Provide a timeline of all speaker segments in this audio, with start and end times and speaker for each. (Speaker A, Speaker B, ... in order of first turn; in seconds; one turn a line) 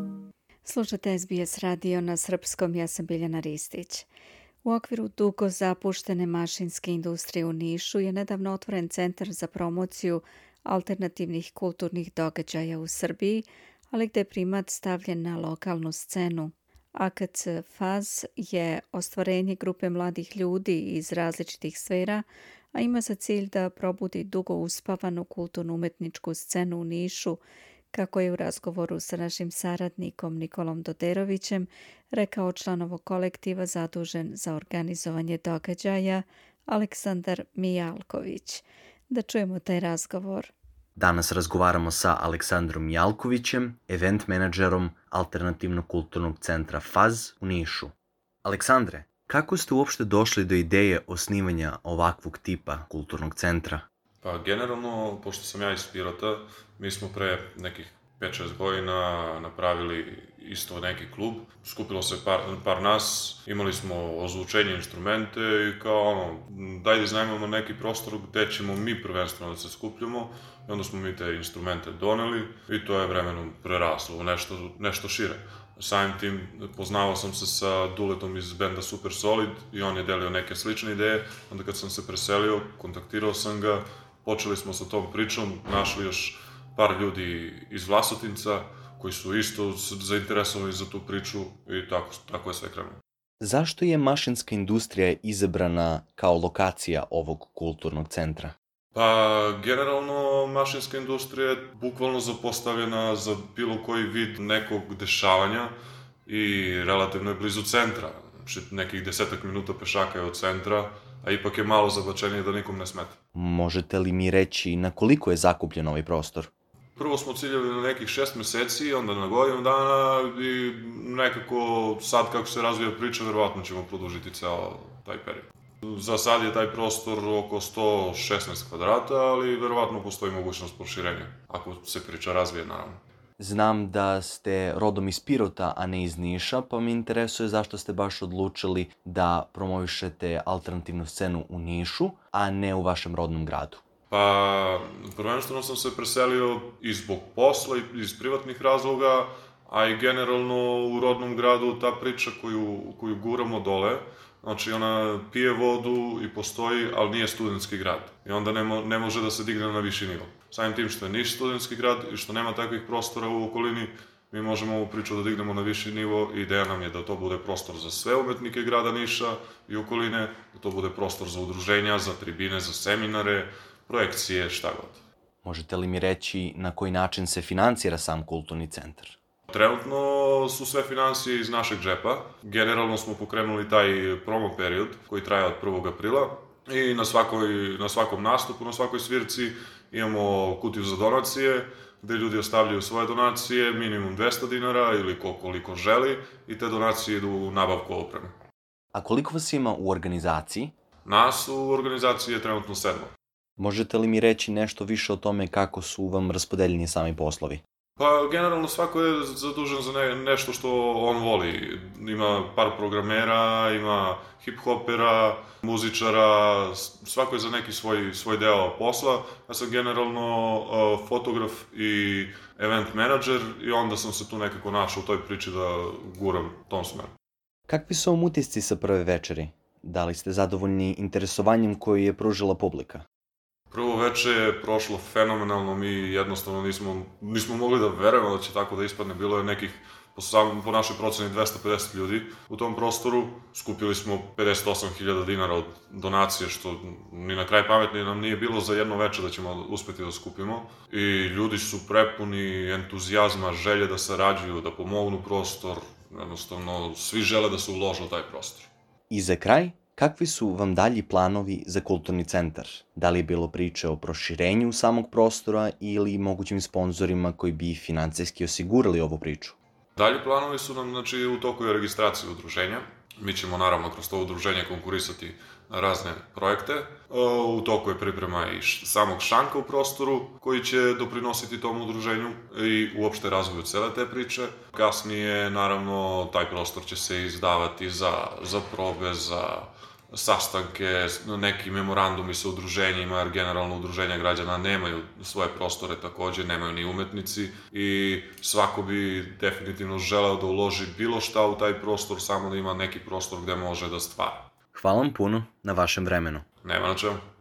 Speaker A: 0.6-4.1
Speaker A: 4.6-27.4
Speaker A: 27.9-40.5
Speaker B: 41.0-53.8
Speaker C: 54.2-93.0
Speaker B: 93.4-98.5
Speaker C: 98.9-105.7
Speaker C: 106.2-113.2
Speaker B: 113.3-116.5
Speaker C: 117.0-133.0
Speaker B: 133.4-143.8
Speaker C: 144.1-175.0
Speaker B: 175.4-179.2
Speaker C: 179.5-198.3
Speaker B: 198.9-200.7
Speaker C: 201.1-203.1
Speaker B: 203.6-207.6
Speaker C: 208.0-227.1
Speaker B: 227.7-233.0
Speaker C: 233.7-258.7
Speaker B: 259.1-269.5
Speaker C: 269.9-304.5
Speaker B: 304.7-306.4
Speaker C: 306.6-307.2